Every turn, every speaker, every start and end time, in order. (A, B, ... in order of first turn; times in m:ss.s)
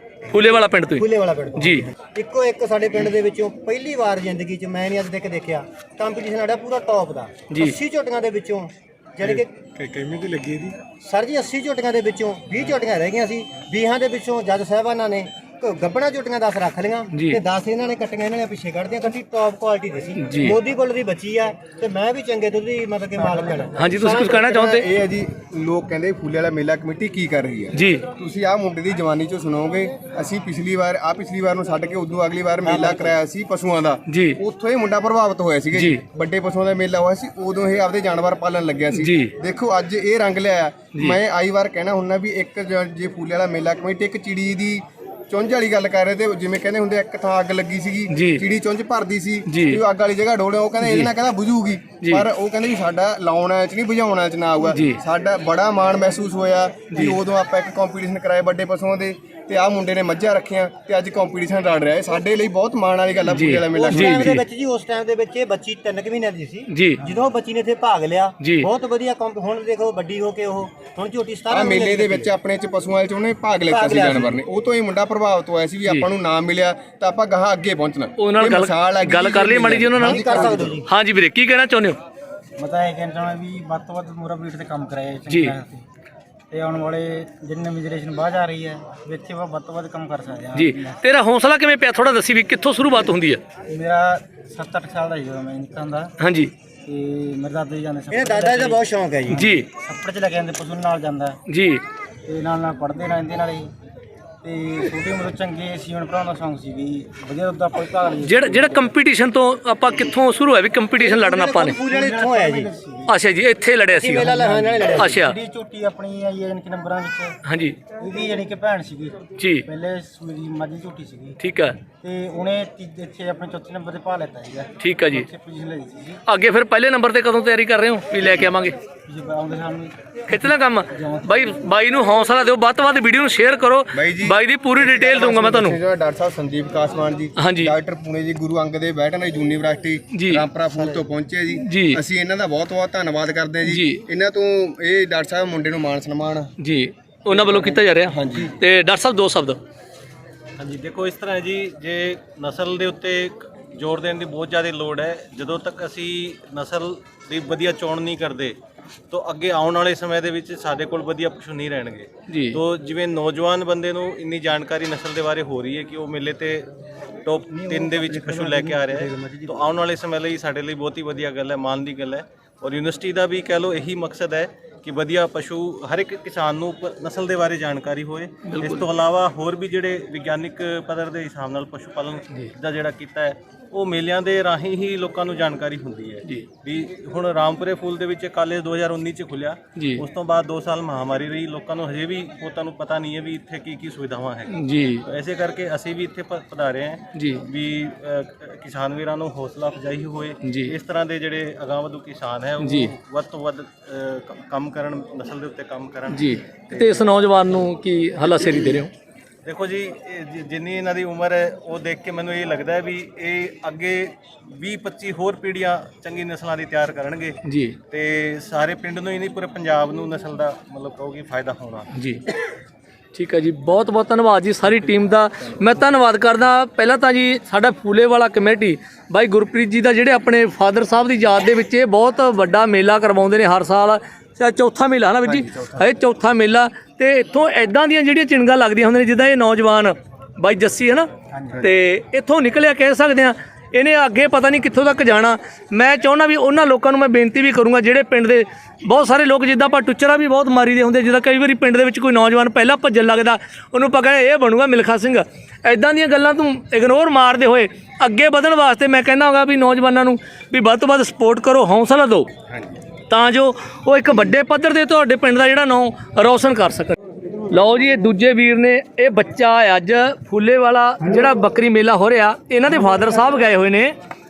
0:00.2-0:01.9 A
0:00.9-0:09.7 B
0:07.5-0:07.7 A
0:09.8-0:10.8 C
0:10.8-0:23.8 B
0:17.1-0:17.4 A
0:20.2-0:20.6 A
0:23.8-0:24.8 A
0:24.0-1:04.4 D
0:27.7-0:28.0 A
0:32.6-0:33.2 B
0:34.1-0:34.4 A
0:35.7-0:36.0 A
0:38.9-0:39.3 A
0:48.1-0:48.4 A
0:49.5-0:49.8 A
0:50.8-0:51.1 A
0:54.7-0:55.0 A
1:03.3-1:04.4 A
1:03.7-1:12.3 B
1:06.7-1:07.0 A
1:08.4-1:08.7 A
1:11.5-1:20.8 D
1:13.7-1:14.4 B
1:18.2-1:22.0 A
1:19.9-1:20.9 B
1:22.6-1:25.8 E
1:25.3-1:25.5 A
1:26.5-1:31.0 E
1:30.5-1:33.4 A
1:33.7-1:36.1 E
1:36.2-1:36.5 A
1:36.8-1:38.8 E
1:38.1-1:39.5 B
1:39.3-1:39.6 A
1:39.8-1:41.4 E
1:41.5-1:41.8 A
1:42.3-1:43.7 E
1:44.4-1:48.8 E
1:48.2-1:51.8 A
1:51.0-1:52.7 B
1:52.0-1:53.1 E
1:53.1-1:54.4 A
1:53.9-1:55.3 B
1:54.4-1:57.4 E
1:54.9-1:55.4 A
1:57.4-1:57.8 A
1:58.0-2:01.4 E
1:59.4-1:59.6 A
2:01.4-2:01.8 A
2:02.0-2:06.2 E
2:04.8-2:05.3 A
2:06.2-2:08.8 A
2:09.1-2:10.0 E
2:10.3-2:15.8 A
2:10.9-2:11.3 E
2:13.9-2:26.5 D
2:17.4-2:17.7 A
2:20.1-2:20.4 A
2:20.8-2:21.0 B
2:21.6-2:22.0 A
2:23.6-2:24.0 A
2:26.6-2:29.6 A
2:27.3-2:28.5 D
2:30.6-2:38.6 C
2:39.1-2:46.7 C
2:42.3-2:42.6 A
2:47.2-3:14.5 C
2:47.5-2:49.8 B
2:58.4-2:58.8 A
3:09.8-3:10.0 A
3:14.5-3:15.0 A
3:15.0-3:27.0 C
3:17.1-3:17.4 A
3:20.4-3:20.7 A
3:22.6-3:22.9 A
3:26.1-3:28.9 A
3:29.4-3:41.9 C
3:37.4-3:37.8 A
3:41.9-3:42.2 A
3:43.1-4:22.3 A
3:55.3-3:55.8 D
4:01.3-4:01.6 B
4:23.1-4:27.0 A
4:27.5-4:33.9 A